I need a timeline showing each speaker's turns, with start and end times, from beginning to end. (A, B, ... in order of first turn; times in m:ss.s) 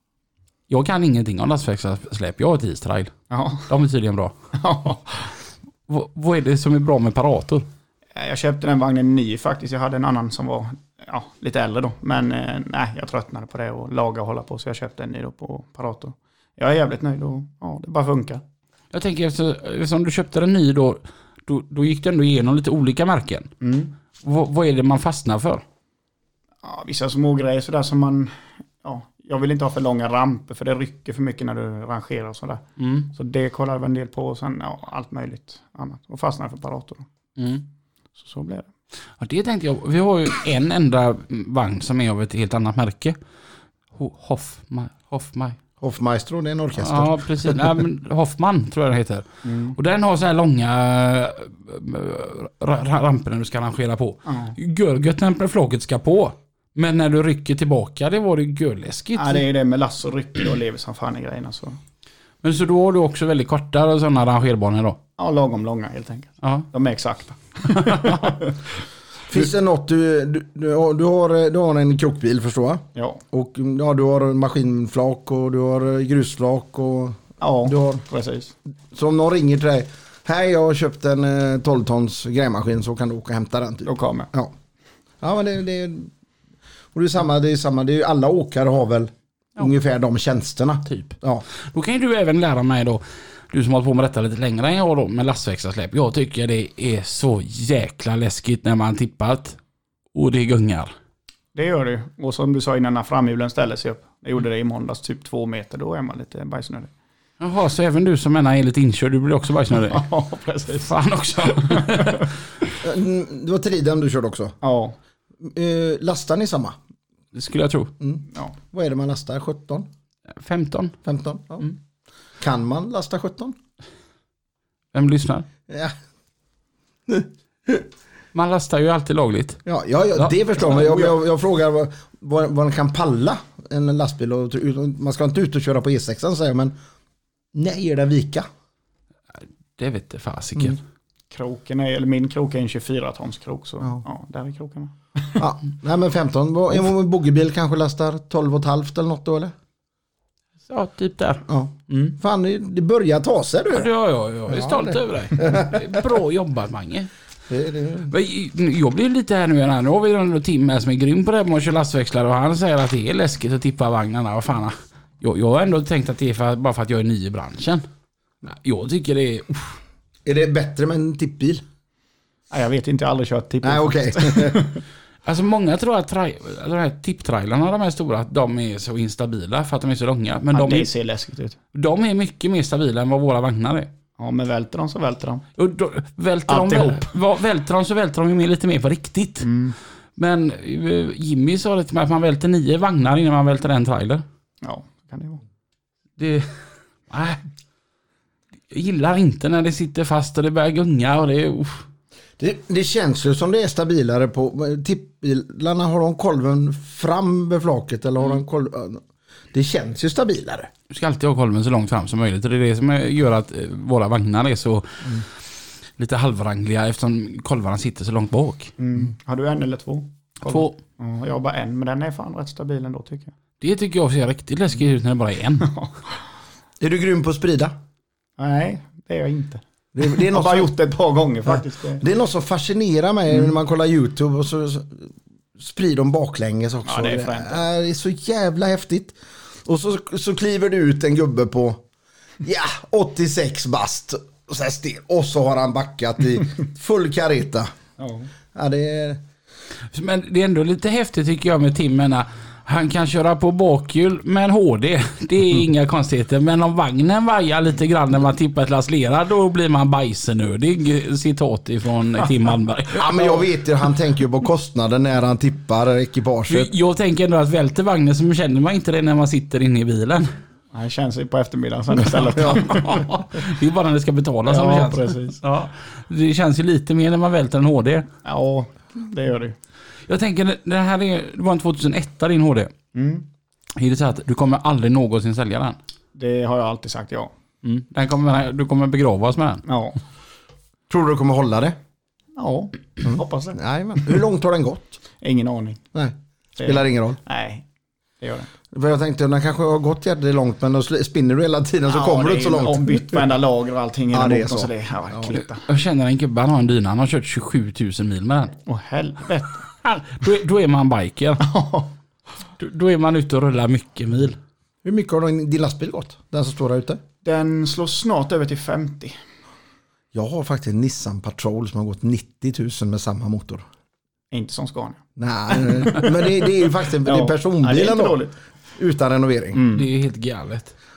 0:00.7-0:03.1 A
0:03.3-0:03.7 B
0:03.7-0:04.4 A
0:04.6-0:05.3 B
0:05.9-0:07.7 A
0:08.2-0:18.4 B
0:18.9-0:23.5 A
0:23.6-0:23.9 B
0:24.2-0:25.6 A
0:26.6-0:37.1 B
0:32.8-0:33.1 A
0:37.4-0:37.6 A
0:38.2-0:38.7 B
0:39.2-0:43.2 A
0:44.0-0:45.6 A
0:45.8-0:47.7 C
0:46.8-0:59.4 A
0:49.4-0:49.8 B
0:54.3-0:54.6 B
0:59.2-1:01.8 B
1:02.4-1:05.0 A
1:05.2-1:08.6 B
1:06.4-1:06.7 A
1:07.8-1:08.1 A
1:09.3-1:18.0 C
1:13.0-1:13.2 B
1:17.4-1:18.5 B
1:18.9-1:24.5 C
1:23.8-1:24.3 B
1:25.2-1:26.1 C
1:26.9-1:31.4 C
1:30.9-1:31.1 A
1:31.6-1:39.6 A
1:40.1-1:40.9 A
1:41.6-1:46.9 B
1:47.4-1:50.0 A
1:49.8-1:50.9 B
1:50.8-1:52.3 A
1:51.5-1:52.2 B
1:52.8-1:54.6 C
1:54.6-1:55.0 B
1:55.4-1:56.8 C
1:57.3-1:57.9 A
1:58.0-1:59.9 C
2:00.3-2:01.0 A
2:01.0-2:01.7 C
2:02.4-2:03.6 C
2:04.9-2:05.5 A
2:05.7-2:06.0 C
2:07.1-2:07.8 C
2:08.3-2:09.6 A
2:09.7-2:16.8 C
2:10.7-2:11.1 B
2:17.5-2:18.5 C
2:19.4-2:20.8 A
2:21.3-2:25.4 B
2:25.4-2:29.5 C
2:30.7-2:32.2 A
2:31.5-2:33.9 C
2:33.7-2:37.1 A
2:34.5-2:36.0 C
2:37.5-2:38.1 C
2:38.1-2:47.9 A
2:48.4-2:49.8 A
2:50.2-2:51.6 C
2:52.5-2:54.8 B
2:53.6-2:54.7 C
2:55.3-3:00.9 A
3:00.5-3:01.6 B
3:01.7-3:03.9 A
3:04.2-3:05.5 B
3:05.6-3:09.5 A
3:06.5-3:07.1 B
3:09.4-3:09.8 B
3:10.2-3:14.2 A
3:14.6-3:15.4 B
3:16.2-3:17.4 A
3:18.7-3:21.9 A
3:22.4-3:30.7 C
3:30.9-3:35.2 A
3:36.0-3:38.7 A
3:38.8-3:43.3 B
3:40.4-3:40.8 A
3:43.6-3:45.7 A
3:45.6-3:45.9 B
3:46.8-3:47.8 C
3:48.4-3:52.0 B
3:50.0-3:50.7 C
3:51.5-4:01.8 C
3:56.8-3:57.6 B
4:02.4-4:07.7 C
4:08.0-4:08.3 B
4:08.5-4:09.2 C
4:09.9-4:23.4 A
4:22.9-4:26.7 C
4:26.5-4:30.3 A
4:30.7-4:33.1 B
4:32.3-4:38.1 A
4:34.5-4:35.4 B
4:38.2-4:39.6 B
4:40.1-4:42.7 A
4:42.9-4:43.2 B
4:43.8-4:45.8 A
4:46.2-4:47.3 B
4:47.6-4:49.6 A
4:49.7-4:50.0 B
4:50.9-4:51.8 C
4:52.4-4:53.6 B
4:53.1-4:55.0 C
4:55.2-4:55.8 B
4:55.9-4:57.2 C
4:56.6-4:57.6 B
4:58.2-4:58.5 B
4:58.7-5:03.2 C
5:01.9-5:05.7 B
5:04.1-5:05.3 C
5:05.3-5:08.6 A
5:08.7-5:09.7 B
5:09.8-5:11.5 A
5:11.4-5:11.9 B
5:12.6-5:14.4 A
5:14.8-5:17.0 C
5:17.2-5:19.2 B
5:20.1-5:23.6 C
5:24.3-5:26.5 B
5:25.2-5:28.2 C
5:27.0-5:28.4 B
5:28.8-5:29.6 C
5:29.6-5:29.8 B
5:29.7-5:30.7 A